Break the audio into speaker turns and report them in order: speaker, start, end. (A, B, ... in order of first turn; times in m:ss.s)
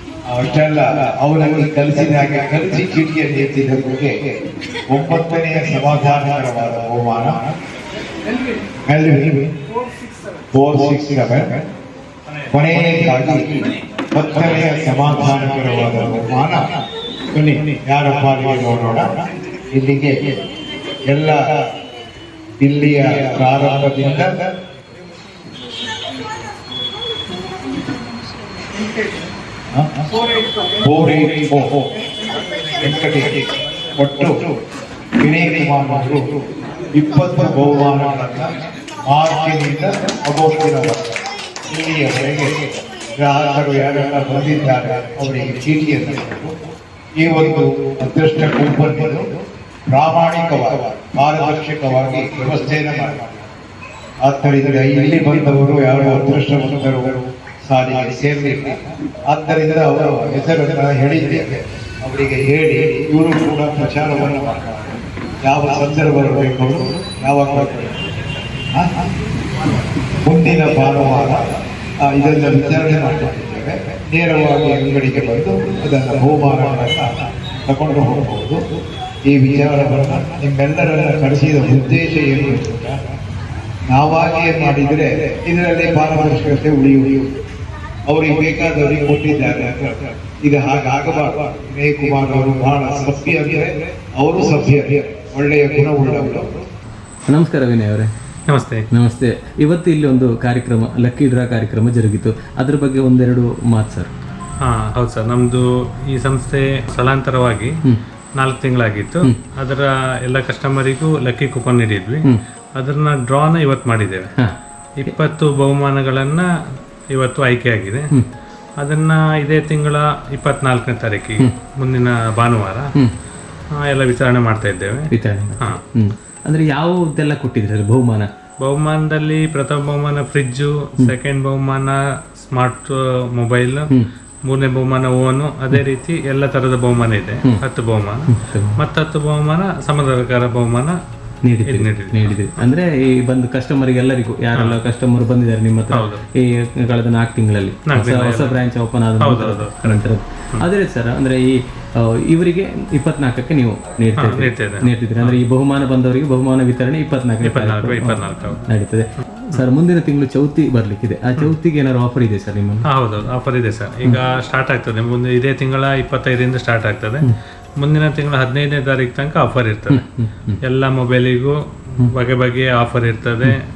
0:00.2-0:04.3 A
0:04.9-0:07.6 A
0:08.8-0:09.5 A
0:10.5-0:11.7 A
0:12.5-0:16.7 A
0:17.4-0:20.4 A
0:21.1-0:21.6 A
0:22.6-0:24.5 A
0:30.8-0:31.9 A
0:32.8-0:34.4 A
0:35.2-0:36.4 A
0:36.9-0:46.5 A
0:47.2-0:53.4 A
0:54.2-1:04.9 A
1:05.4-1:08.0 A
1:08.7-1:09.0 A
1:10.2-1:18.6 A
1:19.2-1:23.0 A
1:23.9-1:27.3 A
1:28.0-1:36.5 A
1:37.3-1:38.1 B
1:38.5-1:38.8 C
1:38.9-1:44.1 B
1:44.6-1:47.7 C
1:48.4-1:52.2 C
1:52.8-1:54.3 C
1:55.0-1:56.5 C
1:57.1-1:58.0 C
1:58.8-2:02.9 C
2:03.8-2:05.1 C
2:05.1-2:08.3 B
2:08.6-2:13.9 C
2:14.5-2:21.0 C
2:18.3-2:18.8 B
2:21.4-2:42.8 B
2:21.6-2:22.4 C
2:25.9-2:26.2 C
2:27.9-2:28.6 C
2:29.2-2:30.6 C
2:34.2-2:35.4 C
2:37.4-2:38.6 C
2:42.9-2:47.2 C
2:47.8-2:50.0 C
2:49.9-2:50.6 B
2:50.6-2:53.5 C